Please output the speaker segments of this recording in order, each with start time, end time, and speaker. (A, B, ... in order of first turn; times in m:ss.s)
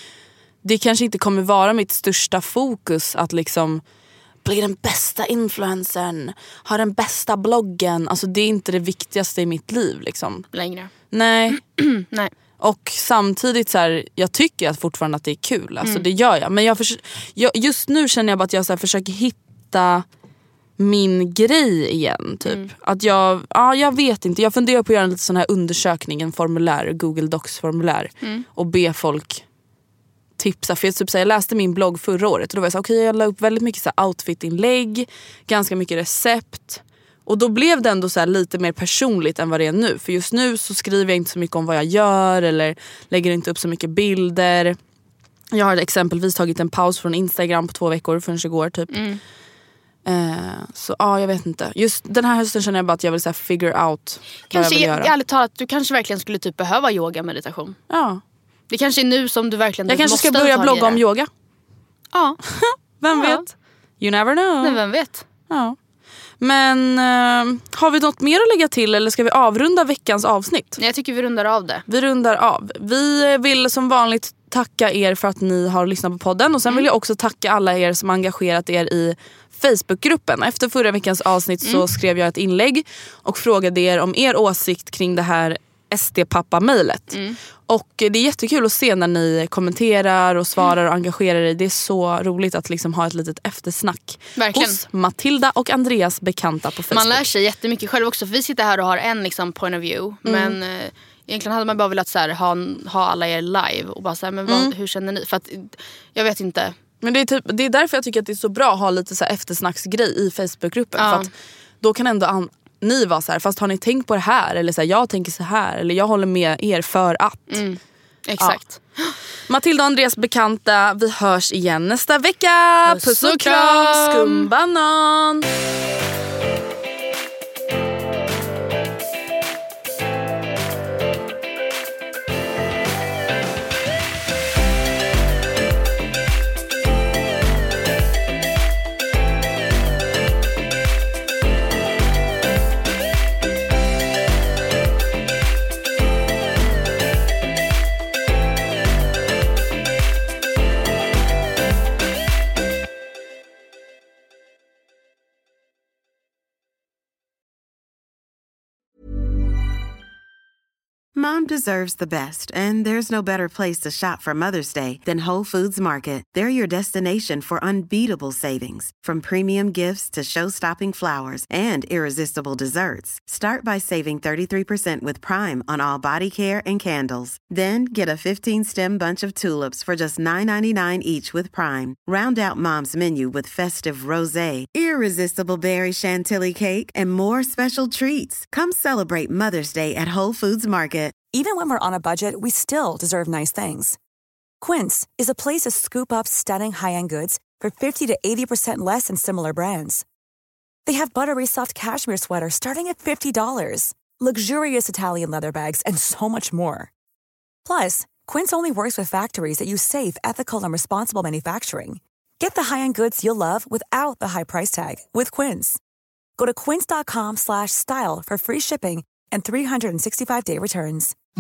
0:00.6-0:03.8 A
0:04.4-0:10.5 A
0:10.5-0:10.9 B
0:11.1-0:11.6 A
0:11.5-0:12.3 B
0:12.6-0:20.0 A
0:20.8-0:29.4 A
0:30.4-0:44.8 A
0:45.5-0:49.0 A
0:48.9-0:49.2 B
0:50.0-0:55.1 A
0:54.5-0:57.8 B
0:57.9-0:58.2 A
0:58.7-1:01.0 B
0:59.9-1:01.3 A
1:02.1-1:02.4 B
1:02.5-1:03.5 A
1:03.1-1:03.4 B
1:04.0-1:04.8 A
1:04.6-1:05.2 B
1:05.5-1:05.8 A
1:06.4-1:10.8 A
1:10.8-1:11.8 B
1:11.9-1:37.2 A
1:27.1-1:27.4 B
1:34.4-1:34.8 B
1:36.9-1:46.8 B
1:40.3-1:40.6 A
1:44.5-1:44.7 A
1:47.0-1:57.6 A
1:51.0-1:51.3 B
1:57.5-1:59.2 B
1:59.5-2:05.5 A
2:02.9-2:04.5 B
2:41.1-3:11.2 C
3:11.3-3:14.0 D
3:14.6-3:20.0 D
3:20.9-3:26.9 D
3:27.6-3:35.8 D
3:36.4-3:41.1 D